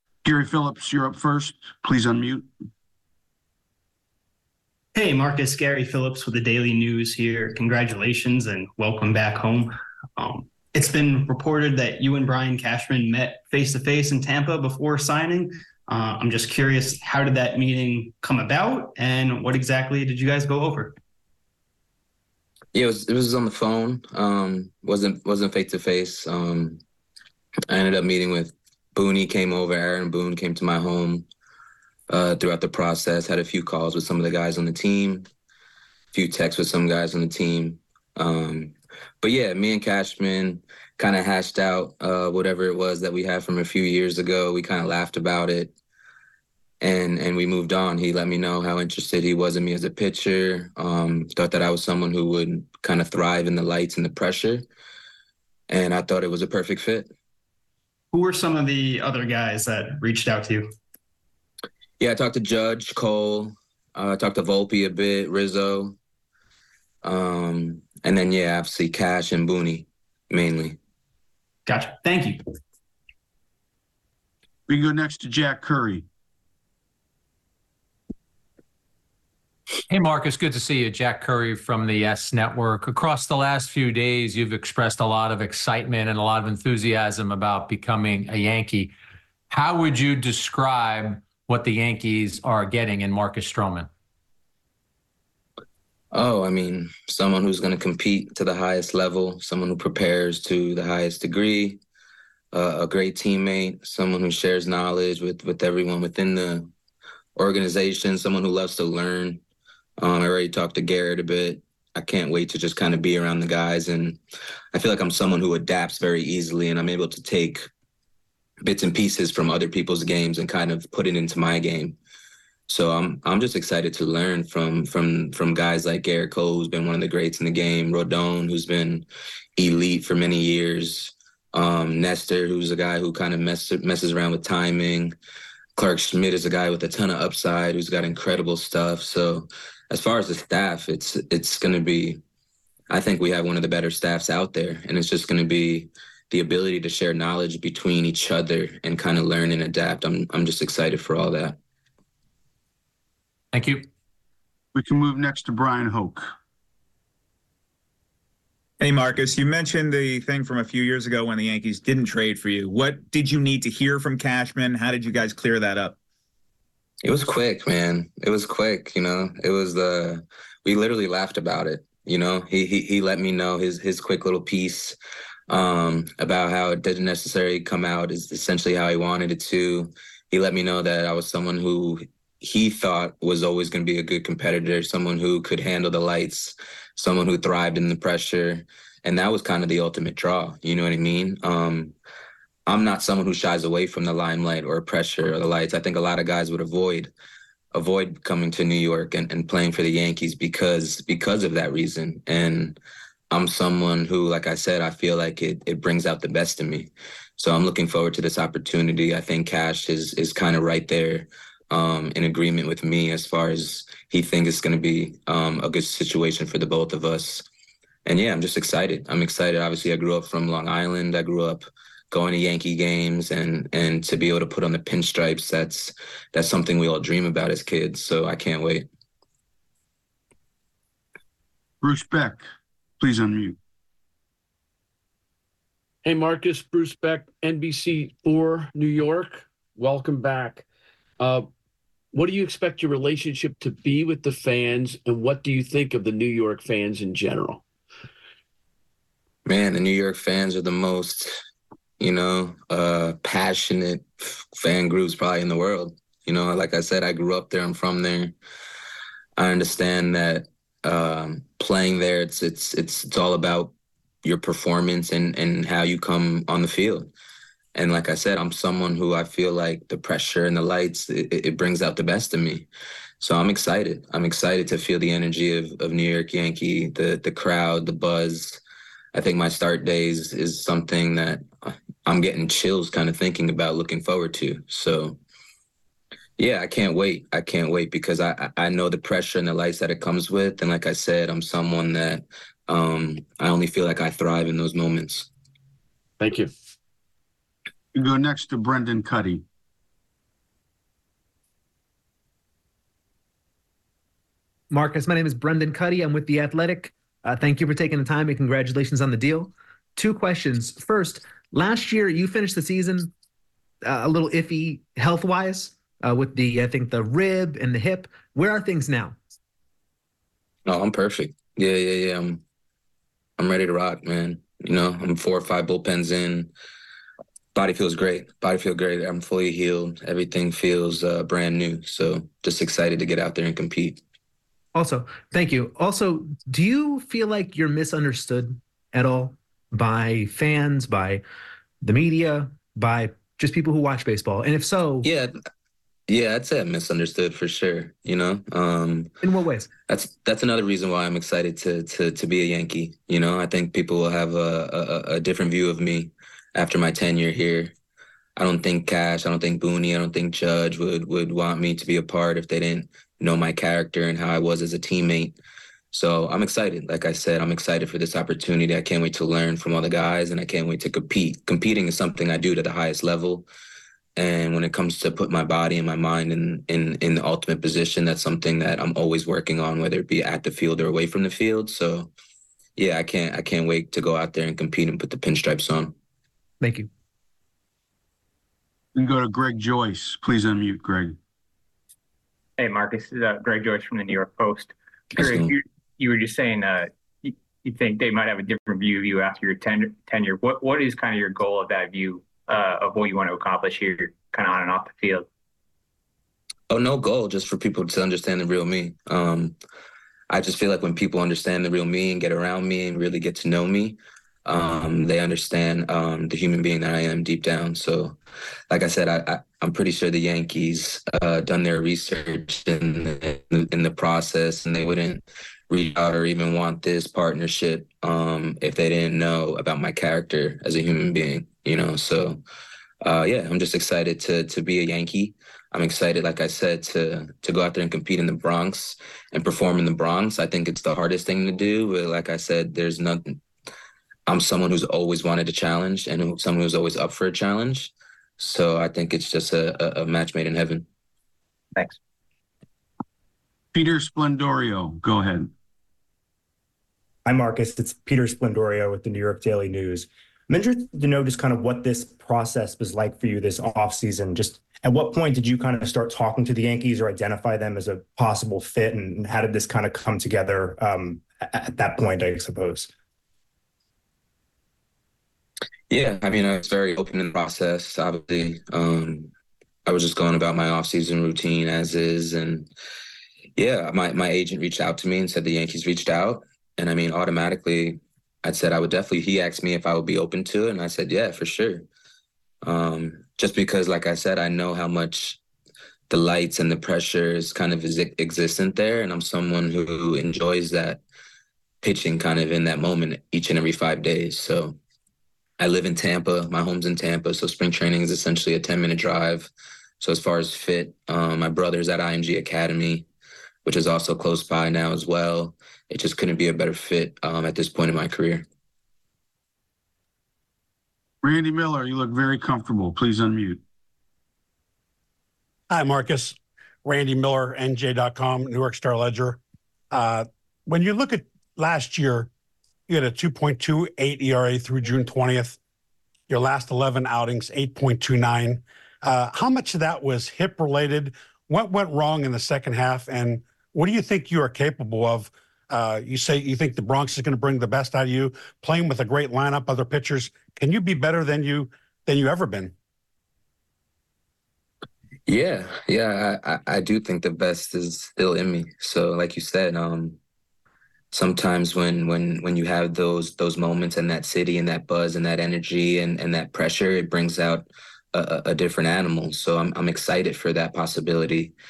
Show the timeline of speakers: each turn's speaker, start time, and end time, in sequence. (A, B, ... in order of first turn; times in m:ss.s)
0:00.2-0:02.5 A
0:04.9-0:20.9 B
0:22.7-0:26.8 C
0:27.7-0:31.2 C
0:32.1-0:35.3 C
0:36.1-0:45.7 C
0:46.8-0:54.6 C
0:55.7-0:57.1 C
0:58.1-1:00.7 B
1:02.0-1:06.0 C
1:07.0-1:10.8 C
1:11.7-1:12.5 B
1:14.7-1:16.0 A
1:19.9-1:28.9 D
1:29.5-1:33.9 D
1:36.1-1:41.8 C
1:42.5-1:46.7 C
1:47.4-1:49.4 C
1:50.0-1:54.2 C
1:54.7-1:57.7 C
1:58.6-2:02.0 C
2:02.7-2:09.0 C
2:09.6-2:15.2 C
2:15.8-2:22.2 C
2:22.9-2:31.6 C
2:33.5-2:33.9 D
2:34.7-2:36.3 A
2:38.8-2:46.0 E
2:47.0-2:55.0 C
2:55.5-3:12.0 C
3:12.7-3:17.1 C
3:17.7-3:22.8 C
3:23.3-3:37.4 C
3:38.0-3:48.8 C
3:51.8-3:52.5 A
3:53.0-3:53.6 A
3:56.0-4:00.7 F
4:01.2-4:01.5 F
4:02.1-4:07.6 F
4:09.4-4:11.4 C
4:12.0-4:18.3 C
4:19.4-4:23.7 C
4:24.2-4:27.1 C
4:27.8-4:32.7 C
4:33.2-4:38.6 C
4:39.1-4:45.2 C
4:46.4-4:55.3 C
4:56.2-4:56.5 F
4:57.9-4:59.4 A
5:04.7-5:13.1 G
5:13.8-5:19.2 G
5:20.6-5:22.4 C
5:23.4-5:26.5 C
5:27.5-5:34.0 C
5:34.8-5:41.2 G
5:41.8-5:45.1 G
5:45.0-5:45.3 C
5:46.1-5:49.1 C
5:49.2-5:49.7 G
5:49.9-5:57.7 C
5:58.4-6:05.4 C
6:05.9-6:13.5 C
6:14.2-6:22.1 C
6:22.8-6:26.0 C
6:26.6-6:26.9 G
6:29.0-6:31.2 A
6:32.6-6:45.2 H
6:46.7-6:49.6 C
6:50.3-6:58.2 C
6:58.7-7:12.4 C
7:13.0-7:23.4 C
7:24.3-7:30.9 C
7:33.7-7:35.5 A
7:37.2-7:52.9 I
7:55.9-7:59.3 C
7:59.9-8:02.7 C
8:03.6-8:11.9 C
8:12.6-8:15.4 C
8:16.1-8:21.0 C
8:21.8-8:24.8 C
8:25.6-8:29.5 C
8:30.0-8:33.1 C
8:33.6-8:38.4 C
8:41.2-8:43.6 A
8:45.7-8:49.4 J
8:49.9-8:52.3 J
8:52.9-8:55.6 J
8:56.3-9:12.7 J
9:15.3-9:20.2 C
9:21.1-9:31.6 C